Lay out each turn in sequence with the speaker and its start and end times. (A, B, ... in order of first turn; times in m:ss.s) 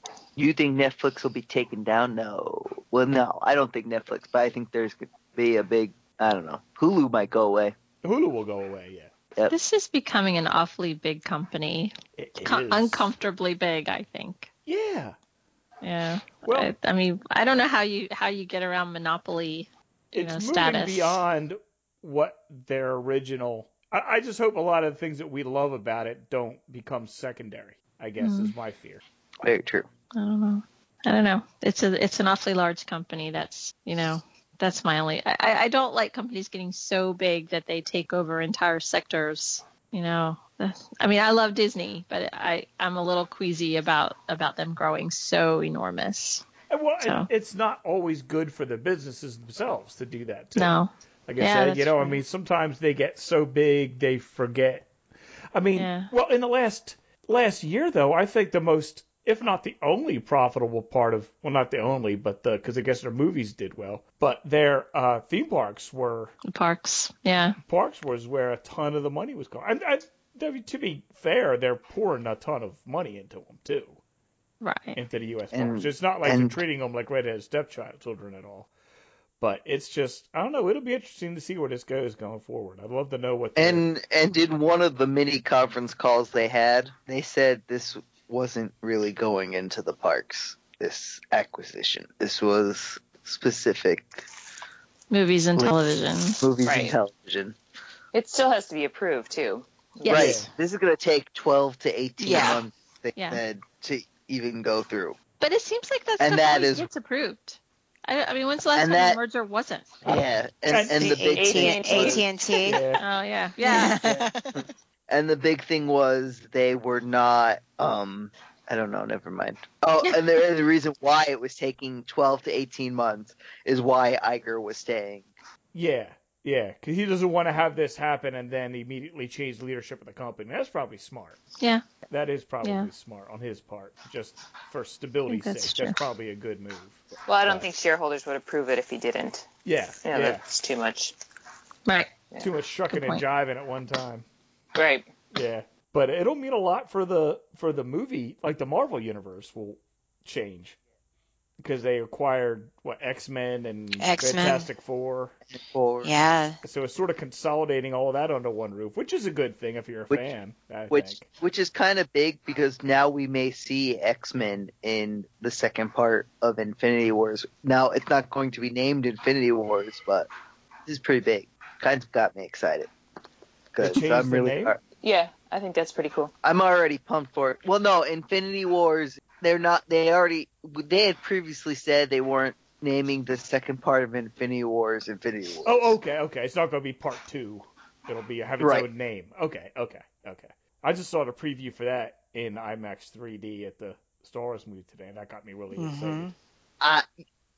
0:00.4-0:07.7 A
0:08.0-0:09.1 B
0:09.5-0:14.5 C
0:12.2-0:13.1 B
0:14.6-0:15.2 B
0:15.8-0:21.2 C
0:16.4-0:16.7 B
0:20.1-0:29.0 B
0:28.2-0:28.5 C
0:29.4-0:29.9 A
0:30.2-0:46.5 C
0:46.7-0:54.9 B
0:47.0-0:47.3 C
0:50.6-0:52.2 C
0:55.5-1:06.3 B
0:55.8-0:56.1 C
1:06.5-1:07.6 C
1:07.6-1:14.0 B
1:14.6-1:15.0 C
1:14.9-1:18.7 B
1:15.5-1:16.6 A
1:19.4-1:23.8 B
1:23.6-1:34.2 A
1:35.1-1:36.5 C
1:35.6-1:37.6 A
1:36.6-1:37.0 D
1:38.1-1:40.3 D
1:40.0-1:40.5 C
1:40.1-1:45.2 A
1:40.1-1:40.5 B
1:42.2-1:42.6 E
1:43.2-1:43.4 C
1:45.4-1:49.9 C
1:46.2-1:46.9 A
1:48.8-1:49.2 A
1:50.0-1:51.1 B
1:50.0-1:52.2 A
1:50.8-1:52.9 E
1:51.2-1:52.2 D
1:52.6-1:53.0 B
1:53.0-1:54.0 C
1:53.6-1:54.6 E
1:54.0-2:05.3 A
2:05.7-2:11.4 B
2:12.1-2:17.7 B
2:12.6-2:12.9 C
2:15.3-2:16.0 C
2:17.3-2:19.5 D
2:19.6-2:20.4 B
2:20.0-2:21.1 D
2:22.4-2:24.2 B
2:22.9-2:23.2 C
2:24.7-2:25.1 D
2:25.3-2:30.8 B
2:31.6-2:35.4 B
2:34.0-2:34.7 E
2:35.5-2:36.1 A
2:36.0-2:36.6 E
2:36.6-2:41.3 B
2:40.9-2:50.3 A
2:50.9-2:52.9 A
2:53.7-2:54.8 A
2:53.8-2:54.8 B
2:55.0-2:56.3 D
2:56.4-3:05.9 A
3:05.6-3:16.3 B
3:08.6-3:08.9 A
3:15.7-3:16.3 E
3:16.8-3:17.0 A